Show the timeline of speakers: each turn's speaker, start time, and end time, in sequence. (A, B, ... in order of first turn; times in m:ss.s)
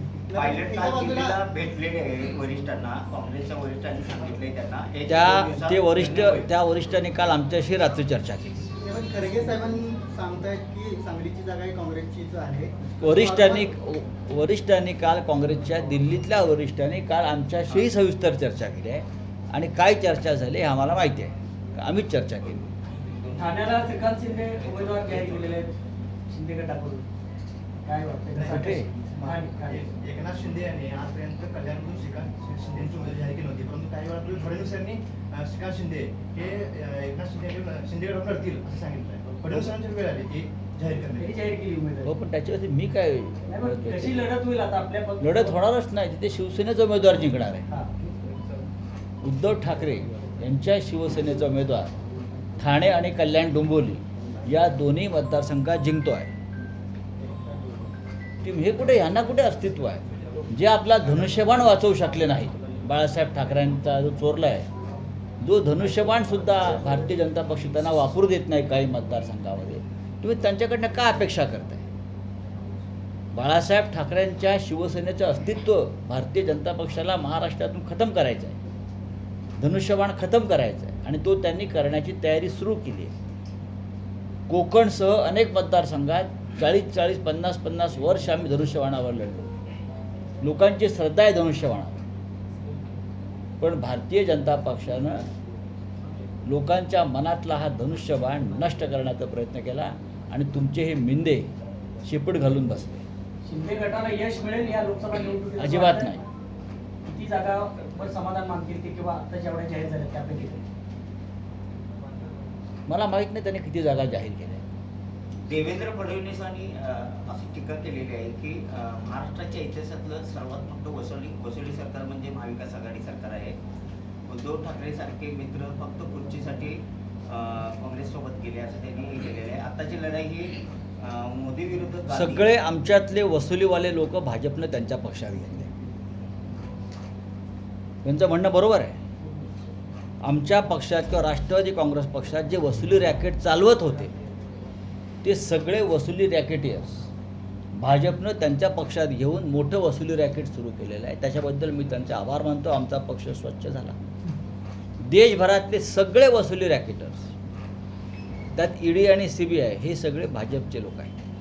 0:00.3-0:01.4 A
0:00.3-0:06.5 B
0:05.1-0:08.5 C
0:08.8-0:13.6 A
0:13.0-0:22.7 C
0:23.3-0:25.7 D
0:24.6-0:25.5 B
0:26.3-0:27.1 D
0:27.8-0:29.9 D
0:28.4-0:28.9 C
0:29.2-0:41.3 E
0:41.2-0:42.1 D
0:42.0-0:44.3 C
0:43.5-0:45.5 D
0:45.2-0:47.6 C
0:47.7-0:48.0 D
0:49.2-0:52.0 C
0:52.6-0:56.3 C
0:58.4-1:04.7 C
1:05.4-1:11.9 C
1:13.3-1:18.6 C
1:19.6-1:23.1 C
1:24.5-1:29.5 C
1:30.4-1:32.0 C
1:33.6-1:35.3 C
1:36.4-1:41.5 C
1:42.0-1:43.0 C
1:43.4-1:46.2 D
1:45.6-1:46.2 C
1:47.0-1:50.6 D
1:52.9-1:54.6 C
1:55.4-2:03.6 B
2:04.3-2:12.5 B
2:12.1-2:15.7 C
2:18.0-2:19.0 C
2:20.2-2:24.1 C
2:25.2-2:27.1 C
2:27.8-2:34.0 C
2:35.0-2:37.3 C
2:38.6-2:41.1 C